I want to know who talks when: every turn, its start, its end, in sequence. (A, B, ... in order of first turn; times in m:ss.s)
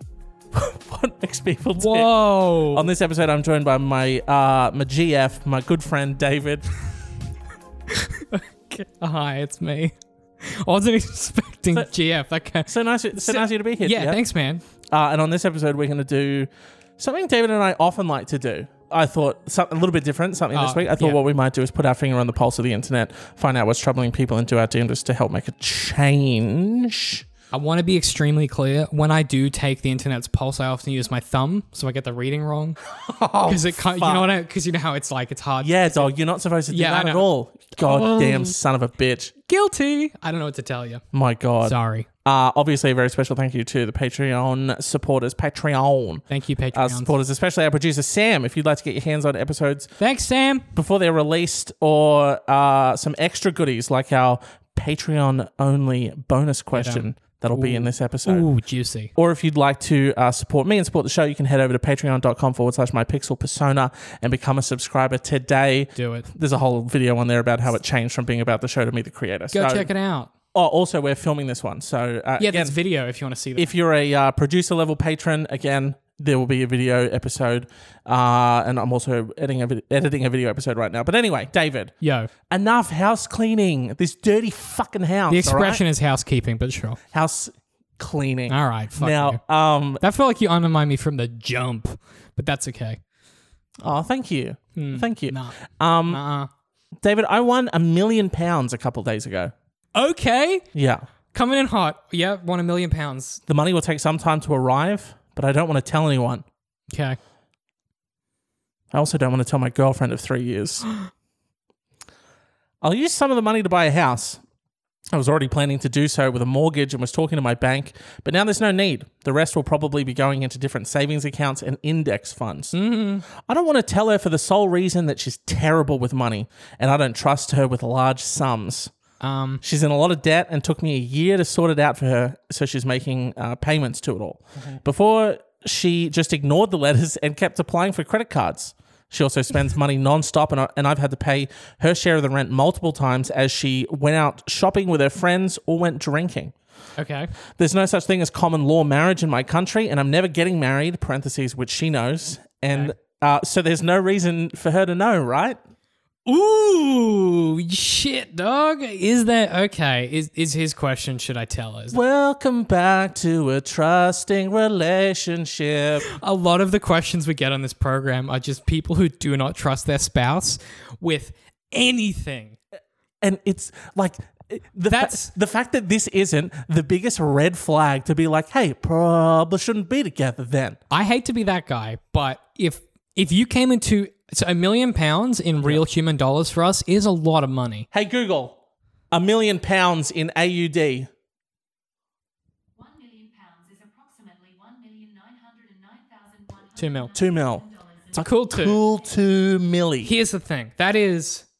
0:00.5-0:06.7 A
0:01.8-0:02.8 B
0:07.9-0:14.6 B
0:12.7-0:14.2 A
0:14.9-0:27.2 A
0:20.5-0:21.2 B
0:27.5-0:32.8 B
0:33.1-0:34.3 A
0:33.4-0:36.1 B
0:35.6-0:39.3 A
0:36.7-0:37.2 B
0:37.8-0:38.5 B
0:39.5-0:41.0 B
0:41.1-0:49.9 A
0:41.6-0:42.1 B
0:46.3-0:47.1 B
0:50.0-0:50.7 B
0:50.7-0:58.4 A
0:56.7-0:59.1 B
0:59.2-1:09.9 A
1:06.0-1:06.3 B
1:09.5-1:10.3 B
1:10.5-1:12.7 A
1:12.4-1:13.7 B
1:13.6-1:21.9 A
1:22.0-1:22.3 B
1:22.5-1:25.8 A
1:25.3-1:27.0 B
1:27.1-1:30.0 A
1:28.5-1:29.4 B
1:30.0-1:33.0 B
1:33.8-1:36.2 A
1:34.8-1:35.6 B
1:36.1-1:36.5 B
1:37.0-1:39.5 A
1:39.9-1:40.6 B
1:40.7-1:41.0 A
1:41.3-1:43.4 B
1:43.5-1:46.4 A
1:46.9-1:47.2 B
1:48.9-1:50.9 A
1:52.8-1:54.4 A
1:55.1-2:02.7 A
2:02.7-2:03.2 B
2:03.3-2:08.9 A
2:09.2-2:09.6 B
2:09.6-2:26.5 A
2:27.0-2:27.3 B
2:27.6-2:35.6 A
2:36.2-2:42.0 B
2:41.9-2:46.0 A
2:46.1-2:52.6 B
2:53.2-3:00.8 A
2:54.9-2:55.3 B
3:00.9-3:07.9 B
3:07.9-3:08.6 A
3:09.1-3:11.1 A
3:12.8-3:18.1 C
3:16.8-3:17.2 B
3:17.1-3:20.1 A
3:18.2-3:18.8 B
3:20.0-3:21.4 B